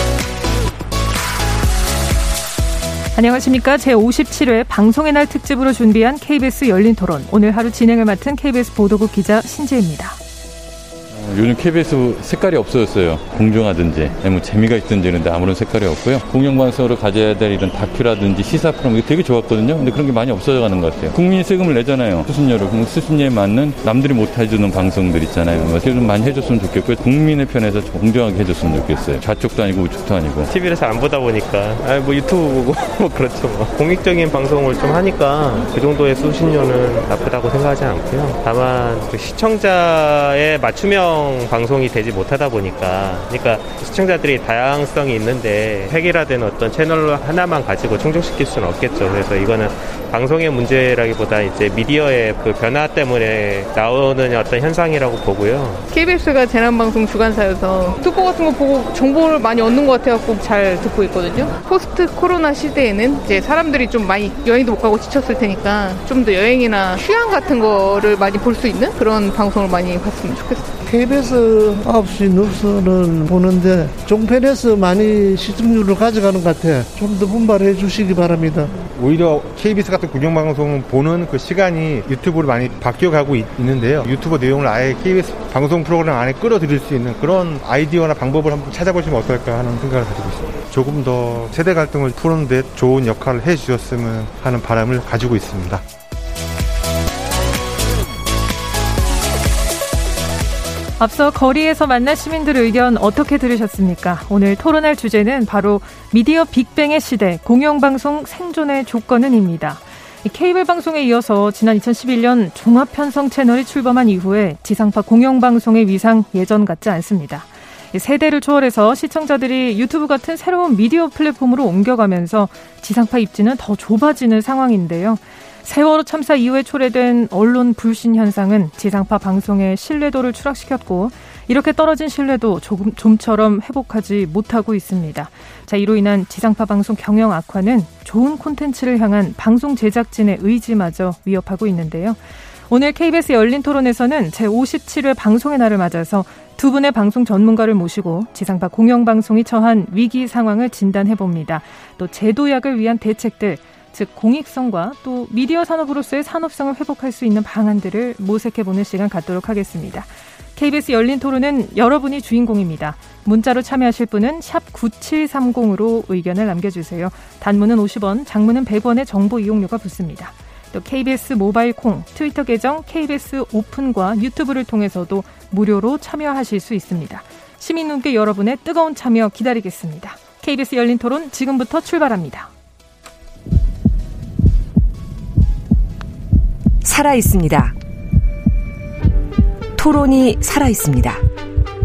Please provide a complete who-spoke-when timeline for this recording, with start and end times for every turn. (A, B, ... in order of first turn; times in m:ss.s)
0:03.2-0:10.2 A
0:11.1-0:30.5 B
0:30.5-0:55.9 C
0:55.9-1:10.8 D
1:10.8-1:18.8 E
1:18.9-1:35.8 F
1:41.0-3:02.5 A
3:06.8-3:07.8 G
3:09.8-3:11.2 G